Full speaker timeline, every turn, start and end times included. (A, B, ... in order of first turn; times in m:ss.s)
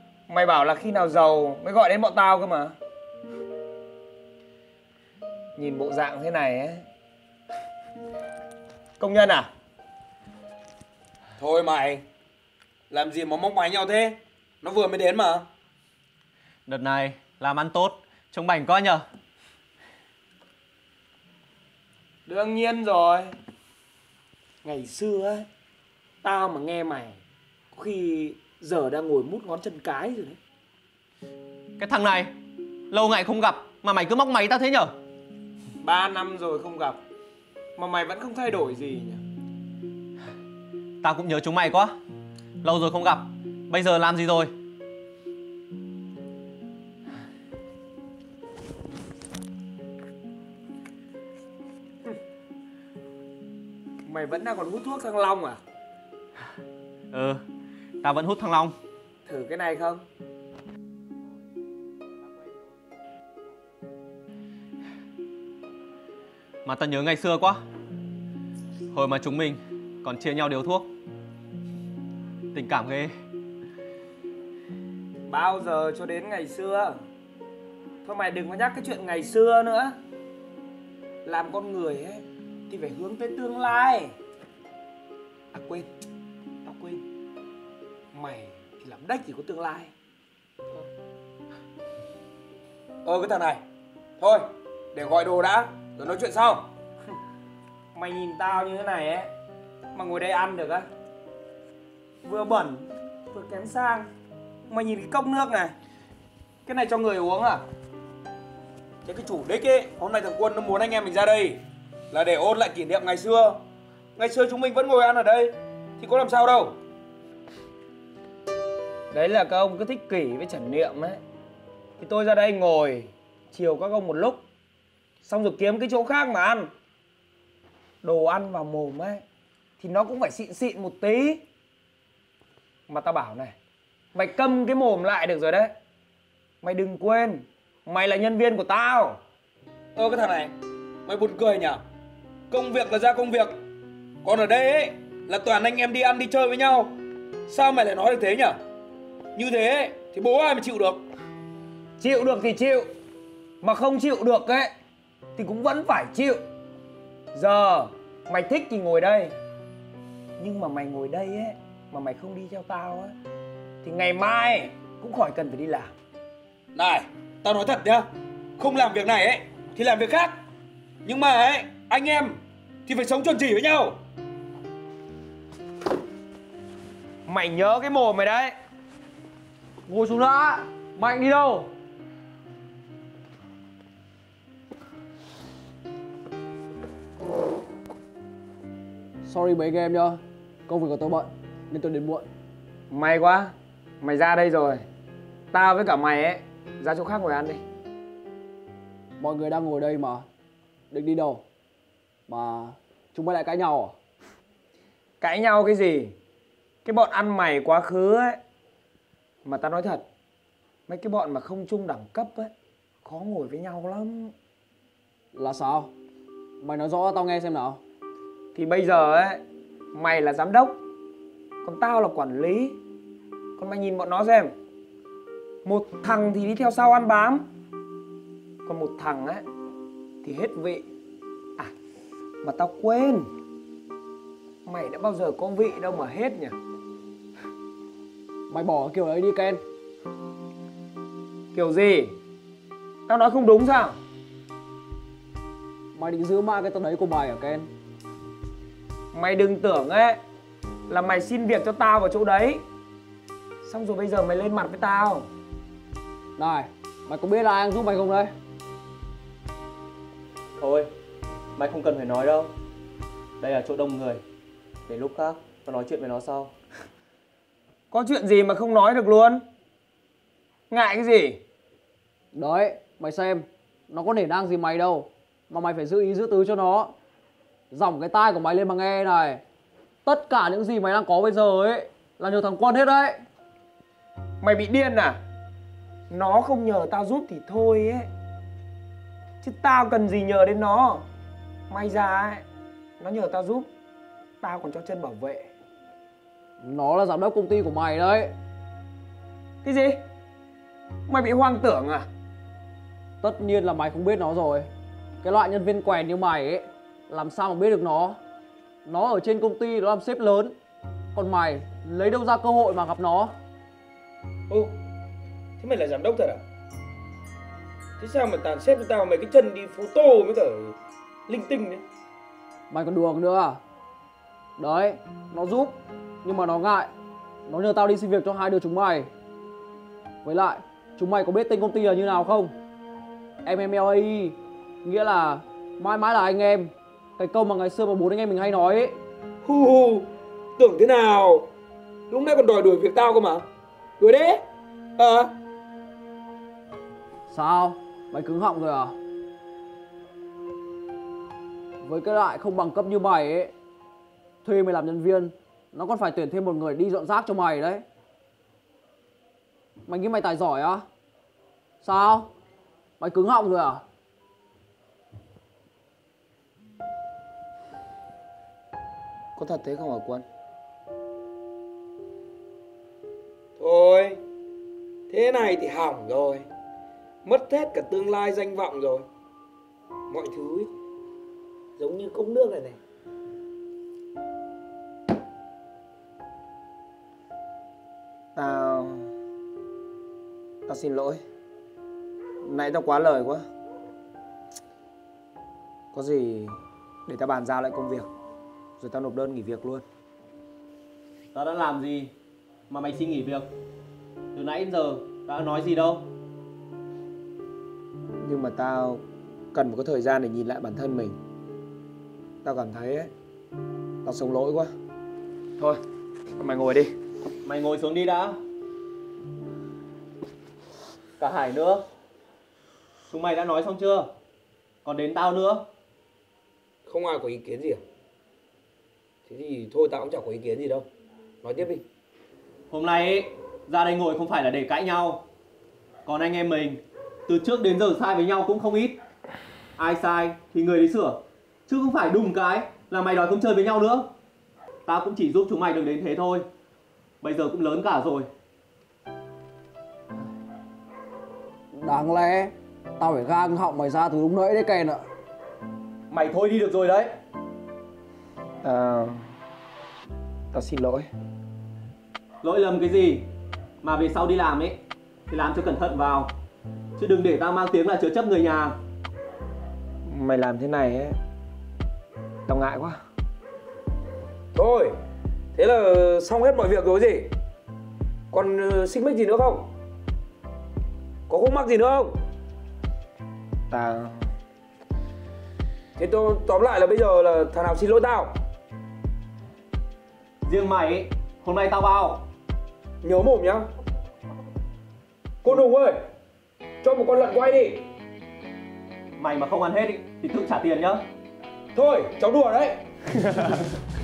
0:00.3-0:02.8 A
0:05.6-0:06.8 A
0:09.0-0:09.5 A
0:11.4-0:12.0 B
0:12.9-0:15.5 B
0:16.7-0:19.0 C
0:22.2-0:23.3 A
0:24.6-0:25.5 A
0:26.2-0:27.2 A
0:27.7-0:30.4 A
0:31.8-0:32.3 C
0:32.9-0:34.9 C
0:35.8-0:37.0 A
0:37.8-0:39.2 A
0:41.0-0:42.0 C
0:42.6-0:44.5 C
0:54.0-0:55.6 A
0:57.1-0:57.4 C
0:58.0-0:58.8 C
0:59.2-1:00.0 A
1:06.6-1:07.6 C
1:08.9-1:10.9 C
1:12.5-1:13.1 C
1:15.3-1:17.0 A
1:18.0-1:20.0 A
1:21.2-1:24.2 A
1:25.5-1:25.9 A
1:26.6-1:27.0 A
1:28.1-1:29.9 A
1:33.0-1:33.6 A
1:34.9-1:36.5 A
1:37.9-1:39.3 A
1:39.9-1:40.9 A
1:42.2-1:44.1 A
1:44.7-1:45.7 A
1:46.6-1:47.6 A
1:49.2-1:53.6 B
1:54.2-1:56.7 B
1:59.1-2:01.2 A
2:02.0-2:04.4 A
2:05.2-2:06.7 A
2:08.0-2:09.2 A
2:09.8-2:11.4 A
2:12.9-2:13.6 A
2:14.1-2:15.7 A
2:16.6-2:19.2 A
2:20.0-2:20.5 B
2:21.0-2:21.8 B
2:22.5-2:23.6 B
2:24.2-2:27.0 B
2:27.5-2:28.6 B
2:29.4-2:31.0 B
2:32.0-2:32.9 A
2:33.6-2:34.7 A
2:35.4-2:36.4 A
2:37.3-2:39.3 A
2:40.4-2:43.1 A
2:43.8-2:45.9 A
2:46.7-2:50.4 B
2:51.0-2:54.0 B
2:57.2-2:58.5 A
2:59.8-3:01.7 D
3:09.2-3:12.3 D
3:12.9-3:14.8 A
3:15.5-3:17.6 A
3:19.2-3:20.3 D
3:20.9-3:21.4 D
3:22.3-3:23.9 D
3:25.2-3:26.1 A
3:26.8-3:28.4 A
3:29.4-3:30.0 A
3:30.9-3:32.5 A
3:33.0-3:34.3 A
3:35.3-3:35.9 D
3:36.6-3:37.8 D
3:38.5-3:39.4 A
3:39.9-3:40.8 A
3:41.6-3:42.8 A
3:43.6-3:44.5 A
3:45.6-3:47.4 A
3:48.6-3:49.5 A
3:50.2-3:50.9 A
3:52.4-3:53.3 A
3:54.6-3:56.6 A
3:58.5-3:59.6 D
4:01.5-4:02.2 A
4:03.1-4:04.0 A
4:05.9-4:07.7 D
4:09.1-4:10.2 A
4:10.9-4:12.6 A
4:13.6-4:15.3 A
4:16.4-4:18.3 D
4:20.6-4:20.9 C
4:21.6-4:22.5 C
4:23.4-4:24.2 C
4:24.9-4:26.5 C
4:27.9-4:29.4 A
4:30.7-4:31.4 A
4:32.3-4:36.9 D
4:37.7-4:39.4 D
4:40.0-4:43.2 D
4:44.4-4:45.2 A
4:46.1-4:48.1 A
4:49.4-4:51.0 A
4:51.7-4:52.4 A
4:53.0-4:53.7 A
4:54.4-4:55.5 A
4:56.6-4:58.3 D
4:59.6-5:00.0 A
5:01.1-5:02.1 A
5:03.2-5:04.7 D
5:05.2-5:08.2 D
5:08.8-5:10.5 D
5:11.1-5:13.3 D
5:15.6-5:16.4 A
5:18.0-5:20.7 A
5:21.3-5:21.8 A
5:22.7-5:23.6 D
5:24.6-5:26.9 D
5:27.4-5:29.1 D
5:30.2-5:32.6 D
5:33.4-5:39.0 D
5:39.4-5:41.5 B
5:42.1-5:43.4 B
5:44.0-5:44.4 B
5:45.0-5:45.3 B
5:47.3-5:49.0 D
5:51.8-5:53.5 D
5:54.4-5:57.8 D
5:59.8-6:00.8 D
6:01.8-6:02.3 D
6:03.0-6:03.8 D
6:09.4-6:10.2 A
6:13.6-6:14.2 B
6:15.1-6:16.3 B
6:17.3-6:19.0 B
6:28.4-6:29.1 A
6:30.7-6:31.2 A
6:32.4-6:33.5 A
6:35.9-6:38.1 A
6:38.8-6:39.8 A
6:41.3-6:42.1 C
6:42.7-6:43.5 C
6:44.3-6:46.0 C
6:48.2-6:49.0 A
6:49.5-6:51.2 A
6:52.4-6:53.1 A
6:54.0-6:54.7 A
6:56.4-6:56.9 A
6:57.4-6:58.4 C
7:01.2-7:01.8 C
7:03.1-7:04.1 C
7:04.8-7:05.6 C
7:06.9-7:07.8 B
7:09.3-7:10.9 B
7:11.4-7:11.8 B
7:12.7-7:15.2 C
7:16.0-7:19.0 C
7:19.8-7:24.1 C
7:24.8-7:26.5 C
7:27.2-7:28.3 C
7:31.7-7:35.0 D
7:36.1-7:37.1 C
7:38.6-7:39.3 A
7:40.5-7:41.1 A
7:42.4-7:43.2 C
7:43.8-7:44.8 C
7:45.3-7:46.3 C
7:47.0-7:48.8 C
7:50.0-7:51.2 A
7:52.5-7:53.0 A
7:54.5-7:54.9 B
7:55.5-7:57.3 B
7:58.3-7:59.6 B
8:01.3-8:02.1 B
8:03.7-8:04.3 A
8:06.0-8:08.3 B
8:10.4-8:12.2 C
8:13.0-8:13.6 B
8:15.5-8:16.0 B
8:16.8-8:17.8 B
8:19.2-8:21.0 C
8:21.7-8:22.8 B
8:23.3-8:23.6 A